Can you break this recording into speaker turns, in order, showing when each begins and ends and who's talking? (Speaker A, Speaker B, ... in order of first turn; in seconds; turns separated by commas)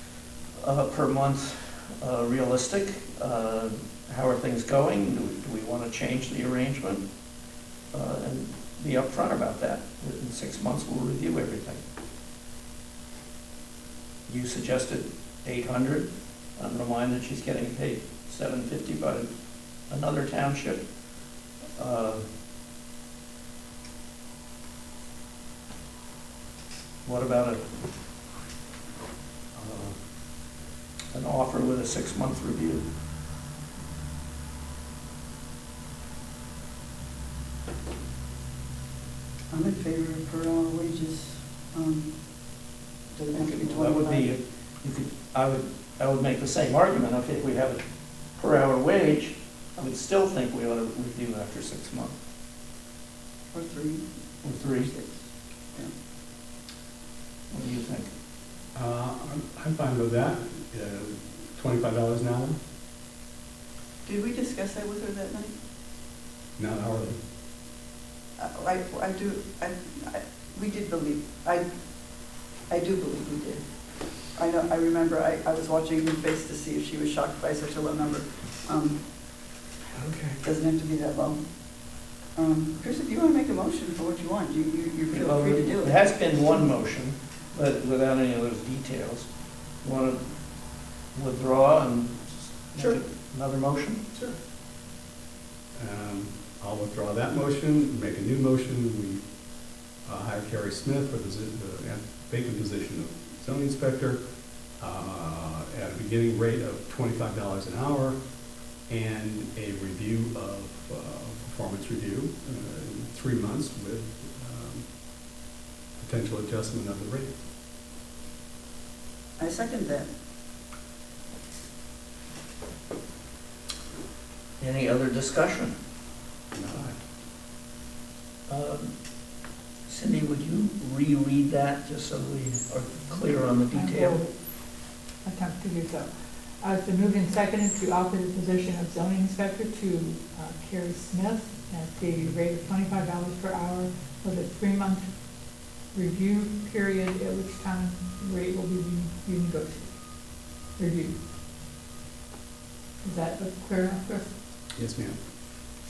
Speaker A: 0.6-7.0, Speaker A: 7.9-11.8, Speaker A: 14.3-19.3, Speaker A: 19.9-20.8, Speaker A: 21.8-22.2, Speaker A: 27.1-27.6, Speaker A: 29.6-30.0, Speaker A: 31.1-32.8, Speaker B: 39.5-42.1, Speaker B: 43.1-44.3, Speaker A: 43.3-47.8, Speaker A: 48.4-52.1, Speaker B: 53.5-55.2, Speaker A: 54.4-54.9, Speaker A: 57.5-58.1, Speaker C: 58.8-62.6, Speaker B: 64.1-65.5, Speaker C: 66.6-67.2, Speaker B: 68.4-71.7, Speaker B: 72.7-73.6, Speaker B: 74.4-79.0, Speaker A: 80.0-80.4, Speaker B: 80.4-81.4, Speaker B: 82.3-86.0, Speaker A: 85.1-89.3, Speaker A: 89.8-90.2, Speaker A: 91.2-94.0, Speaker C: 95.8-99.2, Speaker C: 100.0-104.2, Speaker C: 104.8-108.2, Speaker C: 108.9-114.8, Speaker C: 116.0-117.3, Speaker B: 119.4-120.1, Speaker A: 124.6-125.7, Speaker C: 126.5-127.0, Speaker A: 128.5-128.9, Speaker A: 129.9-134.2, Speaker D: 133.7-134.3, Speaker D: 135.2-151.2, Speaker D: 153.0-154.3, Speaker C: 154.8-155.2